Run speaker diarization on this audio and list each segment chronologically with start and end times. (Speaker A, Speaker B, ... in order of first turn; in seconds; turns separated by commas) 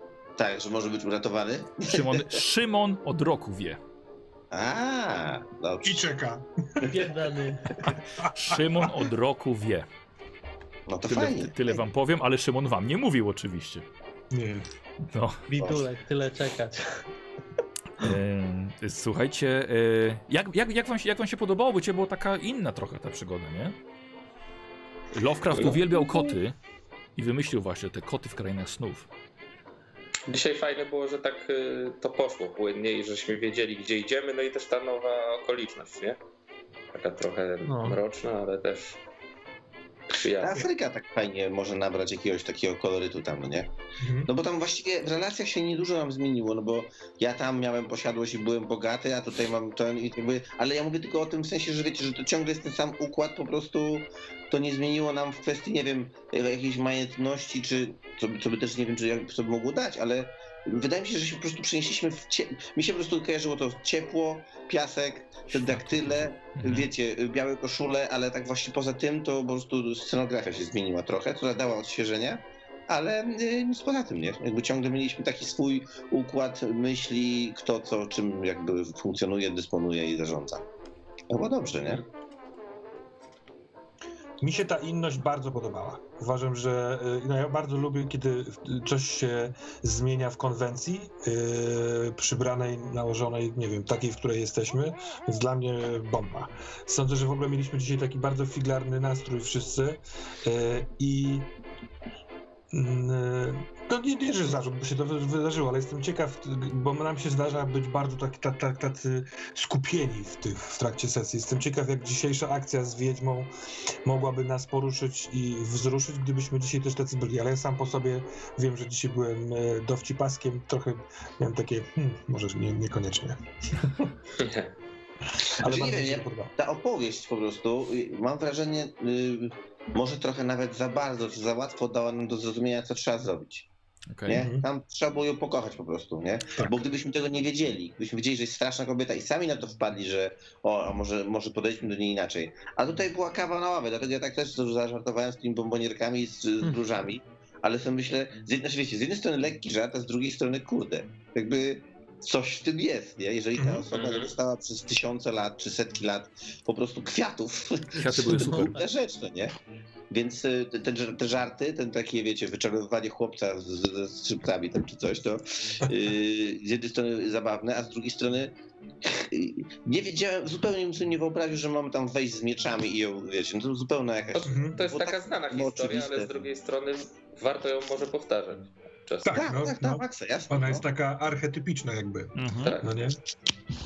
Speaker A: 0.4-2.4, Speaker B: 1.9-3.8, Speaker A: 4.5-6.1, Speaker C: 5.8-7.1, Speaker D: 6.8-7.8, Speaker C: 7.8-8.9, Speaker B: 7.9-9.9, Speaker A: 10.9-11.8, Speaker B: 11.1-13.8, Speaker C: 14.3-14.7, Speaker B: 15.1-15.4, Speaker D: 15.5-17.0, Speaker A: 15.6-15.9, Speaker B: 18.0-23.8, Speaker B: 25.1-26.6, Speaker E: 25.5-25.8, Speaker B: 27.2-29.1, Speaker E: 30.3-36.2, Speaker E: 36.9-39.0, Speaker D: 37.6-38.0, Speaker E: 40.1-40.7, Speaker A: 40.3-43.7, Speaker C: 44.0-44.3, Speaker A: 44.3-80.6, Speaker B: 65.5-66.9, Speaker A: 81.3-82.0, Speaker C: 84.4-101.5, Speaker C: 102.7-113.5, Speaker C: 114.0-124.1, Speaker E: 124.4-124.7, Speaker C: 125.4-126.5, Speaker A: 125.6-133.7, Speaker B: 134.1-134.4, Speaker A: 134.3-159.5, Speaker C: 134.3-134.6, Speaker C: 153.6-153.8, Speaker E: 153.9-154.3, Speaker B: 157.9-158.8, Speaker D: 158.3-158.8, Speaker A: 160.1-176.3, Speaker E: 174.3-179.5, Speaker C: 174.4-174.8, Speaker C: 179.2-183.2, Speaker A: 179.3-180.8, Speaker B: 182.4-182.8, Speaker E: 182.6-182.9